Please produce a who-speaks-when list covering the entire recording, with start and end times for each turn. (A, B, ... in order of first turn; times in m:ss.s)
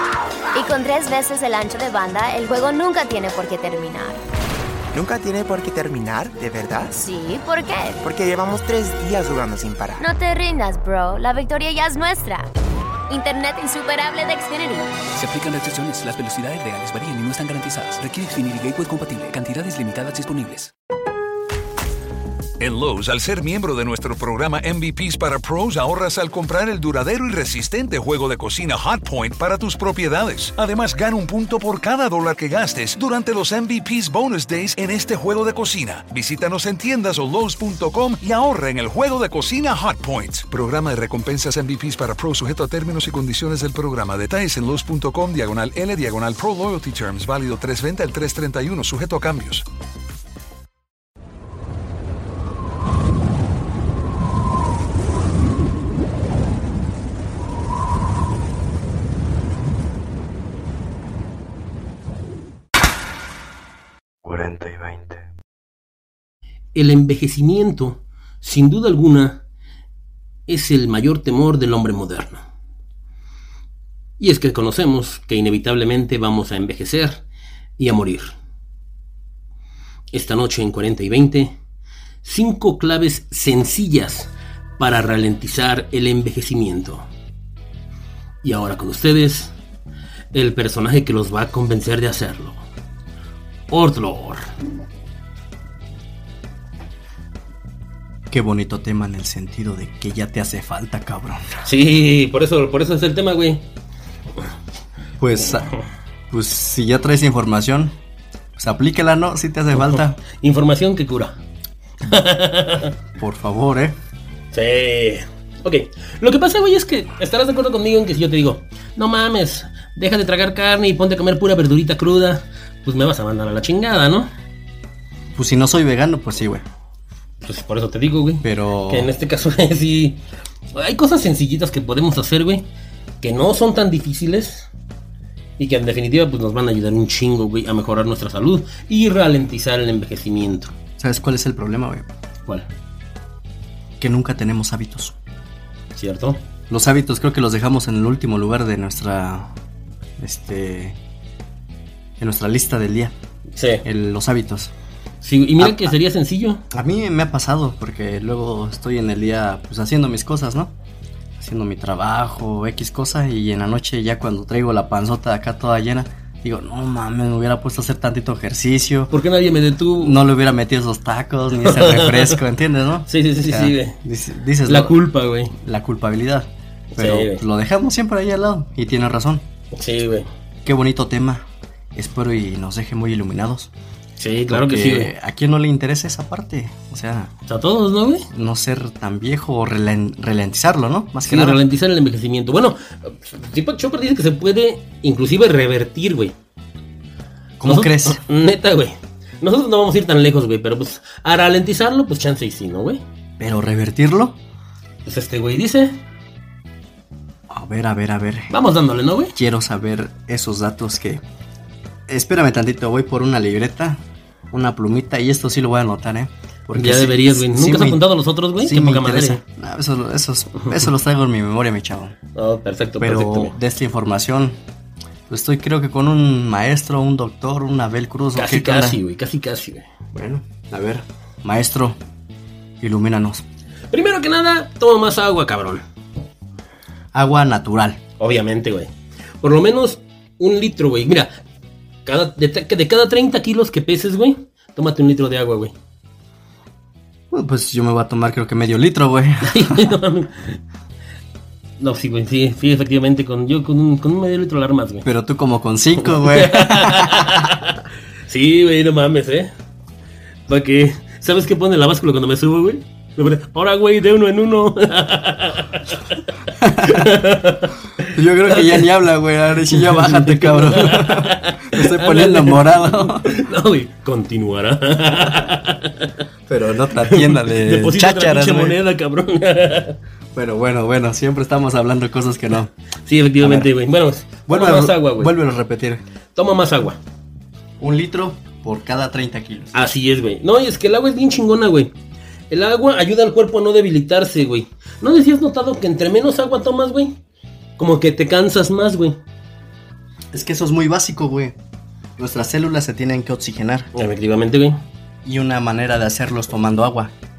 0:00.5-0:04.2 A
0:04.9-0:07.1 B
0:07.0-0:08.0 A
0:08.0-0:10.0 B
0:10.0-0:12.5 A
0:13.1-0:14.9 A
0:15.1-0:20.7 C
0:22.6-0:49.6 D
1:04.2-1:05.2 E
1:06.7-1:09.4 F
1:10.5-1:12.4 F
1:14.2-1:17.2 F
1:17.8-1:18.3 F
1:20.1-1:21.5 F
1:22.2-1:27.0 F
1:28.4-1:29.5 F
1:30.3-1:32.6 F
1:33.7-1:34.4 F
1:38.3-1:41.6 E
1:41.6-1:43.6 F
1:45.2-1:45.7 E
1:46.3-1:48.0 E
1:48.6-1:50.2 E
1:49.9-1:51.4 F
1:52.0-1:52.9 F
1:53.2-1:54.0 E
1:54.5-2:04.3 F
2:05.3-2:06.6 E
2:07.4-2:10.2 F
2:08.4-2:09.1 E
2:10.7-2:12.7 F
2:13.2-2:14.7 F
2:15.6-2:20.7 F
2:21.0-2:22.0 E
2:24.0-2:25.1 E
2:26.0-2:26.4 F
2:26.7-2:29.5 E
2:30.2-2:31.0 E
2:32.2-2:33.1 E
2:33.5-2:33.8 F
2:33.8-2:34.7 E
2:35.2-2:36.6 F
2:35.6-2:35.9 E
2:36.7-2:40.7 E
2:41.4-2:49.1 E
2:49.1-2:50.2 F
2:50.0-2:55.0 E
2:51.6-2:52.4 F
2:53.1-2:54.0 F
2:54.6-2:55.5 F
2:55.6-2:59.4 E
2:56.9-2:57.4 F
2:59.7-3:00.3 F
3:00.6-3:03.7 E
3:04.2-3:05.1 F
3:04.5-3:07.3 E
3:07.5-3:08.3 F
3:08.3-3:11.6 E
3:11.2-3:16.3 F
3:17.6-3:18.2 E
3:17.6-3:23.0 F
3:23.4-3:24.4 E
3:25.0-3:26.0 F
3:27.5-3:28.5 E
3:28.5-3:29.3 F
3:29.4-3:31.2 E
3:32.1-3:42.1 E
3:36.7-3:39.4 F
3:42.3-3:43.5 F
3:43.0-3:44.6 E
3:45.3-3:49.0 E
3:48.4-3:49.8 F
3:50.1-3:52.0 E
3:52.8-3:53.4 E
3:53.9-3:55.8 F
3:57.1-3:58.0 E
3:58.2-3:58.9 F
3:59.4-4:01.3 F
4:02.0-4:05.7 F
4:07.3-4:09.9 E
4:09.4-4:10.6 F
4:11.8-4:15.0 F
4:15.0-4:17.6 E
4:16.1-4:19.5 F
4:20.5-4:26.0 F
4:26.6-4:27.1 E
4:26.6-4:28.8 F
4:28.0-4:33.4 E
4:29.8-4:36.2 F
4:36.5-4:38.8 E
4:37.0-4:40.0 F
4:40.3-4:42.7 E
4:43.0-4:45.3 F
4:43.4-4:43.7 E
4:44.5-4:46.0 E
4:46.3-4:47.0 F
4:47.8-4:49.9 E
4:49.7-4:51.9 F
4:52.5-4:57.2 F
4:57.8-4:59.2 F
5:00.3-5:01.6 E
5:02.2-5:03.9 E
5:03.9-5:04.8 F
5:05.2-5:07.1 E